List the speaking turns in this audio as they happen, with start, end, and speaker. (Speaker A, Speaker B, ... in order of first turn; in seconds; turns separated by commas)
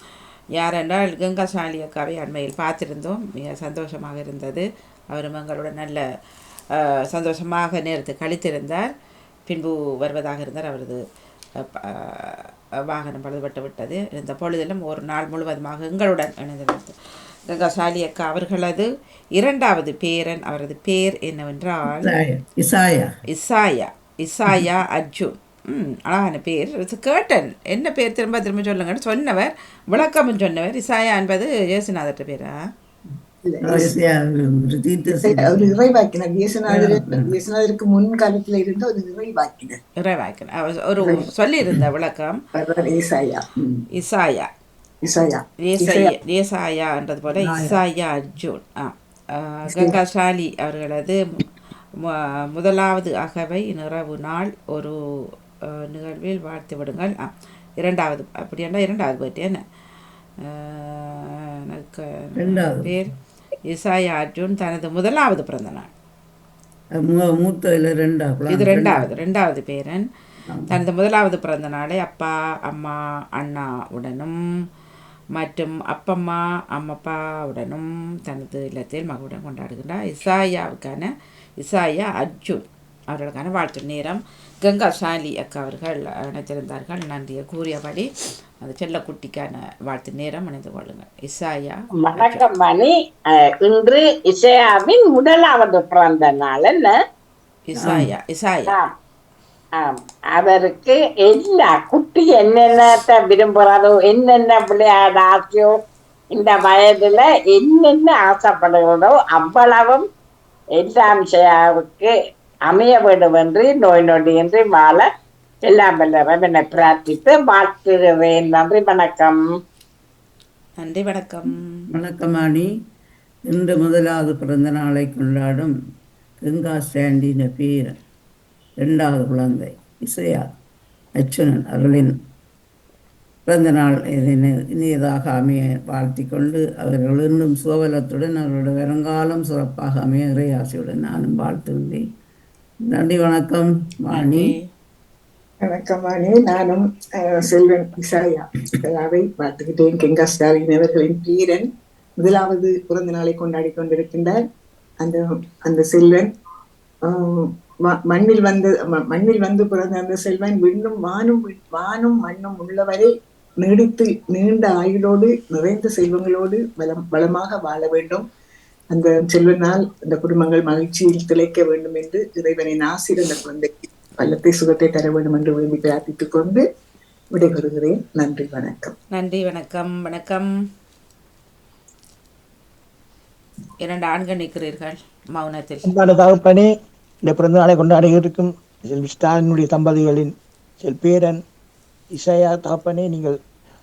Speaker A: 0.6-6.0, Speaker A: 6.8-8.9, Speaker A: 9.5-11.0, Speaker A: 11.8-12.4, Speaker A: 12.9-16.9, Speaker A: 17.5-22.1, Speaker B: 21.9-23.1, Speaker A: 23.3-32.6, Speaker C: 33.4-33.9, Speaker B: 33.6-35.8, Speaker C: 35.2-39.8, Speaker B: 36.7-37.4, Speaker A: 40.0-42.4, Speaker C: 41.0-41.3, Speaker C: 42.5-43.4, Speaker B: 43.6-43.8, Speaker A: 44.0-44.5, Speaker C: 45.0-46.1, Speaker A: 45.6-51.2, Speaker B: 47.4-47.8, Speaker C: 49.7-50.0, Speaker A: 52.1-54.9, Speaker A: 55.9-59.6, Speaker A: 60.5-63.1, Speaker B: 62.4-63.0, Speaker A: 63.7-65.9, Speaker B: 67.0-69.1, Speaker A: 68.5-70.1, Speaker B: 70.5-70.8, Speaker A: 70.7-74.3, Speaker A: 75.4-88.1, Speaker A: 88.6-92.5, Speaker D: 92.1-92.9, Speaker D: 93.6-96.9, Speaker A: 97.7-98.8, Speaker B: 97.8-98.1, Speaker D: 99.8-105.7, Speaker D: 106.4-110.0, Speaker D: 110.8-112.1, Speaker D: 112.7-115.0, Speaker D: 115.7-119.4, Speaker A: 120.8-121.8, Speaker B: 121.9-122.7, Speaker B: 123.5-125.7, Speaker B: 126.5-128.0, Speaker B: 128.8-130.4, Speaker B: 131.2-132.2, Speaker B: 133.5-142.0, Speaker B: 142.9-144.6, Speaker A: 144.1-144.7, Speaker C: 145.7-151.7, Speaker C: 152.2-154.4, Speaker C: 155.0-156.3, Speaker C: 157.1-168.2, Speaker C: 168.9-176.6, Speaker C: 177.3-178.9, Speaker A: 179.1-180.5, Speaker A: 183.8-185.9, Speaker E: 185.8-186.7, Speaker E: 187.2-191.4, Speaker E: 192.1-193.3